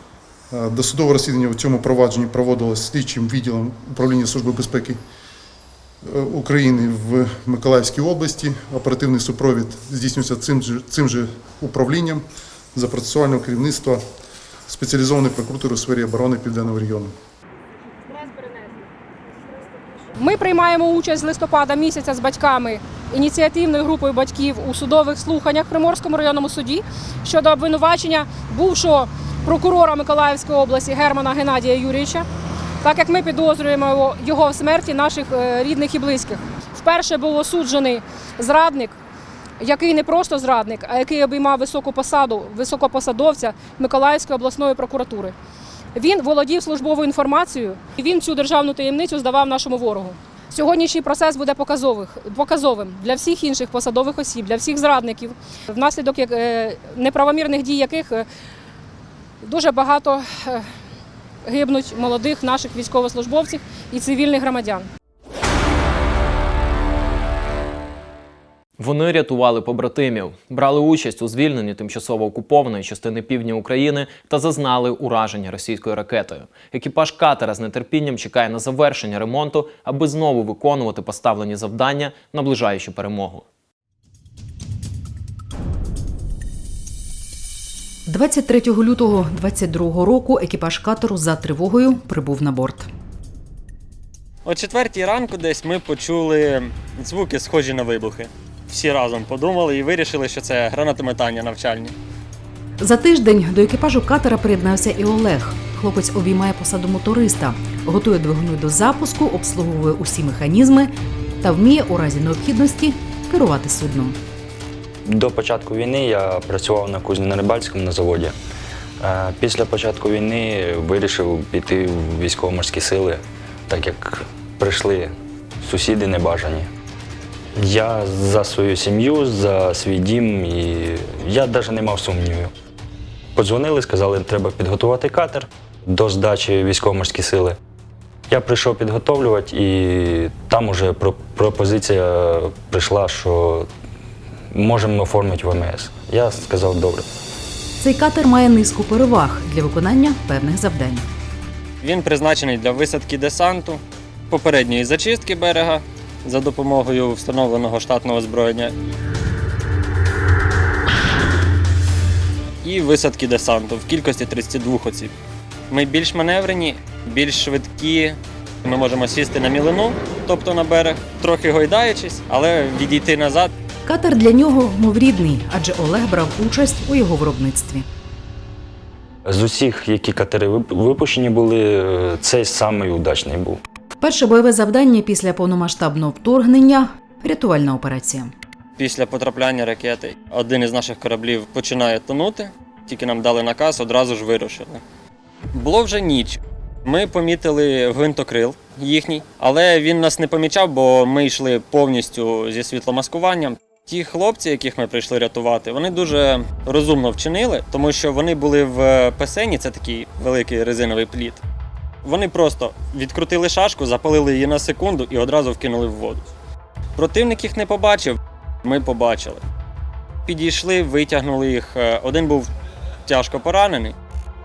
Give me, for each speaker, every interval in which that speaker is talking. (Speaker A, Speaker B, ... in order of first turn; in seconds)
Speaker A: 0.5-5.0, 6.0-14.0, 14.7-17.2
Speaker B: 20.2-32.2, 32.8-39.0, 39.6-45.3, 46.0-58.3, 59.4-60.6, 61.5-64.9
Speaker C: 68.8-83.5
Speaker D: 88.1-92.9, 102.8-110.9, 111.4-114.2, 147.8-151.1, 173.9-177.8, 184.0-188.3
Speaker E: 94.5-101.9, 151.8-158.7, 162.6-165.1, 165.7-173.5, 188.8-194.8, 195.5-211.4, 212.0-216.2, 217.0-219.4, 220.3-222.5, 223.1-223.9
Speaker F: 115.1-118.3, 119.0-126.7, 127.6-132.5, 133.4-137.6, 138.3-143.7, 144.5-147.1, 179.3-183.6